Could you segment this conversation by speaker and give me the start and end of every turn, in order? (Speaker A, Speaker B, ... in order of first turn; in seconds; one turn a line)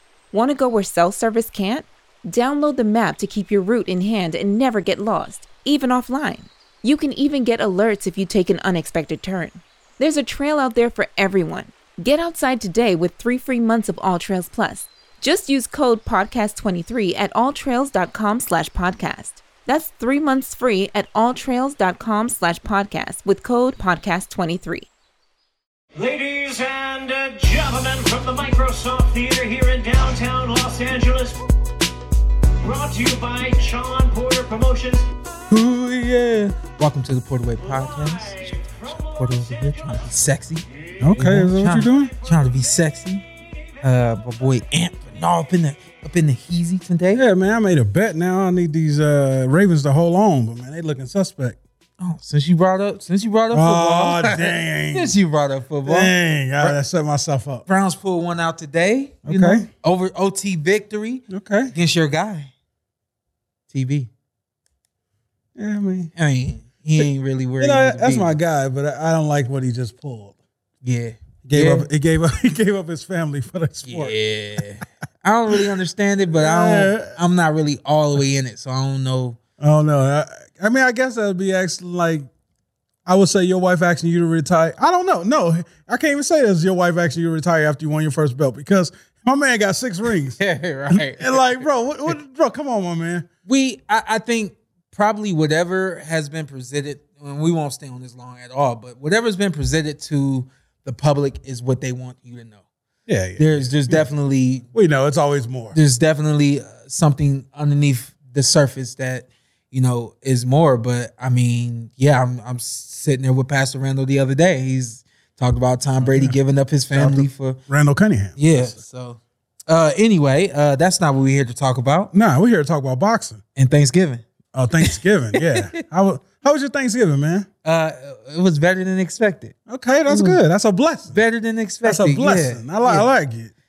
Speaker A: 0.3-24.9
Speaker B: 26.0-31.4
Speaker B: 32.6-35.1
Speaker C: 35.5-36.6
Speaker D: 36.7-43.2
Speaker B: 37.7-40.0
Speaker C: 41.0-42.1
Speaker D: 43.8-47.2
Speaker C: 47.1-51.6
Speaker D: 52.0-56.8
Speaker C: 53.5-55.1
Speaker C: 55.9-57.6
Speaker D: 57.7-62.5
Speaker C: 59.2-59.7
Speaker C: 61.3-61.7
Speaker D: 63.7-64.1
Speaker C: 65.6-66.1
Speaker D: 66.2-68.4
Speaker C: 67.6-70.3
Speaker D: 70.8-71.9
Speaker C: 71.5-74.2
Speaker D: 73.9-79.4
Speaker C: 76.3-77.2
Speaker C: 79.6-82.3
Speaker C: 83.1-90.4
Speaker D: 90.4-91.6
Speaker C: 90.9-93.3
Speaker D: 93.5-102.6
Speaker C: 103.1-104.1
Speaker D: 103.4-104.7
Speaker C: 104.7-105.8
Speaker D: 105.7-117.6
Speaker C: 116.0-116.4
Speaker C: 116.9-118.7
Speaker D: 118.4-122.1
Speaker C: 122.1-123.4
Speaker D: 123.6-124.2
Speaker C: 124.5-127.5
Speaker D: 124.8-125.7
Speaker D: 127.6-129.6
Speaker C: 129.7-131.2
Speaker D: 130.1-130.4
Speaker D: 131.1-133.1
Speaker C: 131.8-133.5